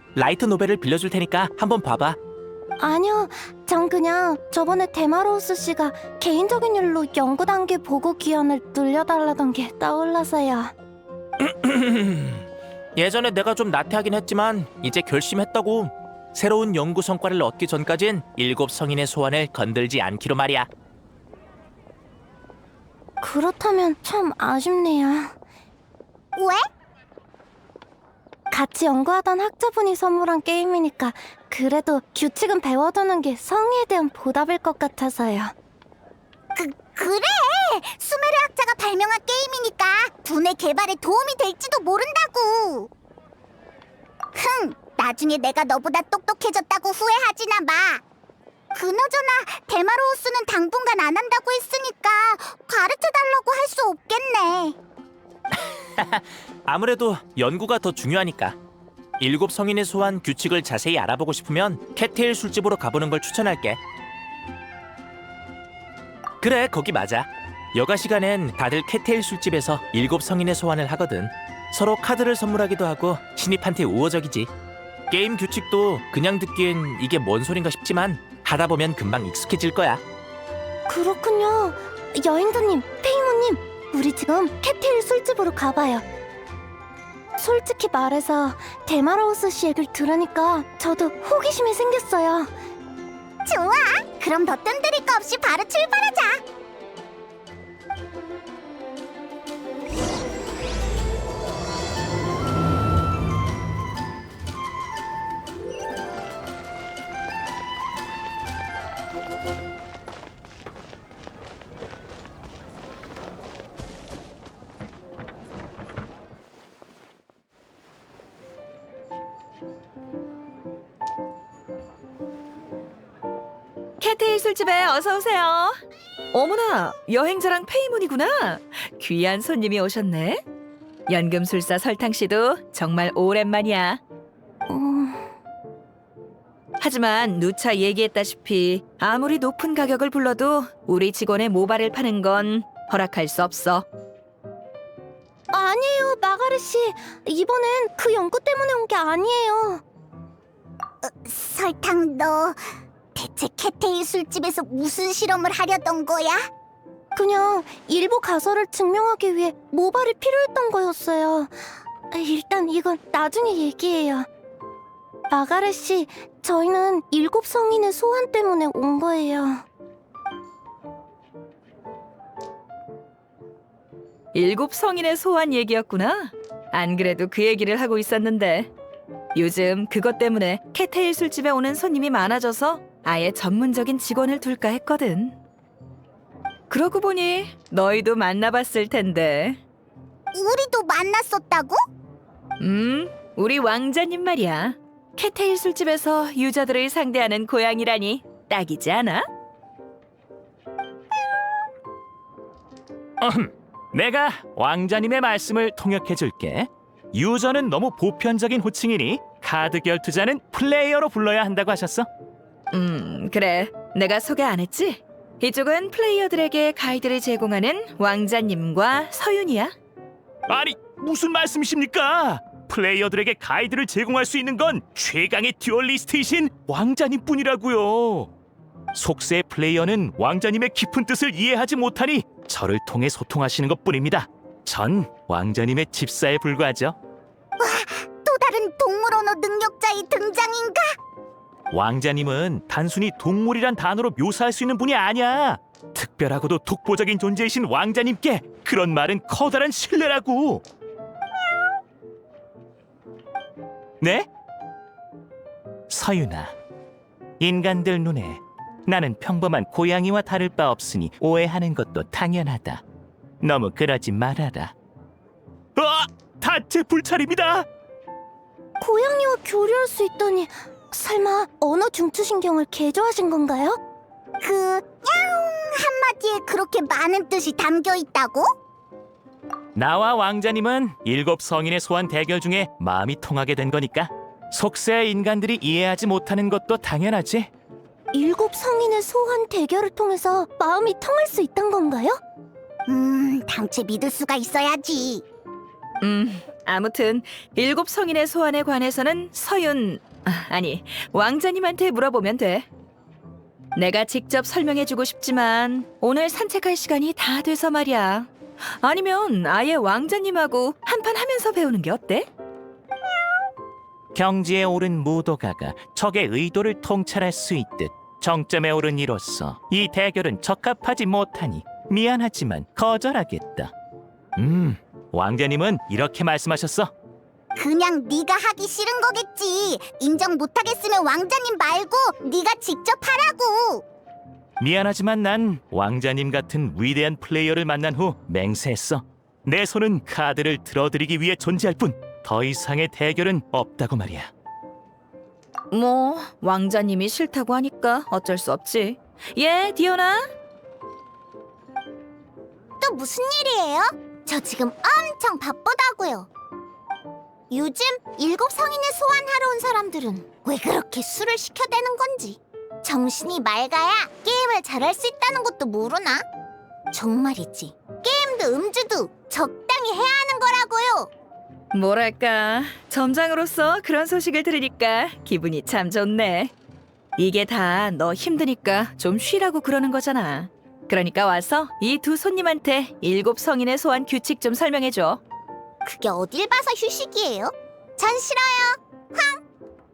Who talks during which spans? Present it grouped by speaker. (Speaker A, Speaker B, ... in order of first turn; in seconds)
Speaker A: 0.2-2.2, 11.4-20.7, 56.0-58.6, 59.2-63.8, 66.4-74.5, 75.1-80.0
Speaker B: 2.8-10.7, 23.2-25.4, 28.5-35.5, 80.9-86.0, 87.4-92.5, 134.7-135.3, 145.5-149.8, 157.2-164.3, 165.3-169.7, 268.8-273.8, 288.1-292.2
Speaker C: 26.4-26.6, 36.5-42.9, 44.4-48.0, 48.7-54.8, 93.5-96.4, 151.0-152.6, 153.2-156.4, 190.3-191.8, 237.6-241.0, 274.4-278.5, 292.9-295.2, 327.6-333.8, 352.8-356.3, 357.5-366.2, 366.9-371.1, 385.9-389.4
Speaker D: 124.0-125.8, 126.3-130.4, 131.1-134.0, 136.8-143.8, 174.3-178.7, 179.3-185.4, 186.7-189.6, 192.6-199.3, 212.7-219.8, 296.0-302.7, 303.8-312.3, 345.7-350.3, 371.7-376.5, 377.2-385.2
Speaker E: 203.2-212.1, 220.5-228.3, 228.9-237.0, 241.7-250.6, 254.0-254.3, 255.9-256.5, 257.4-262.8, 263.4-264.7, 265.8-267.7, 279.8-287.5, 314.1-323.7, 324.4-326.9, 334.6-344.3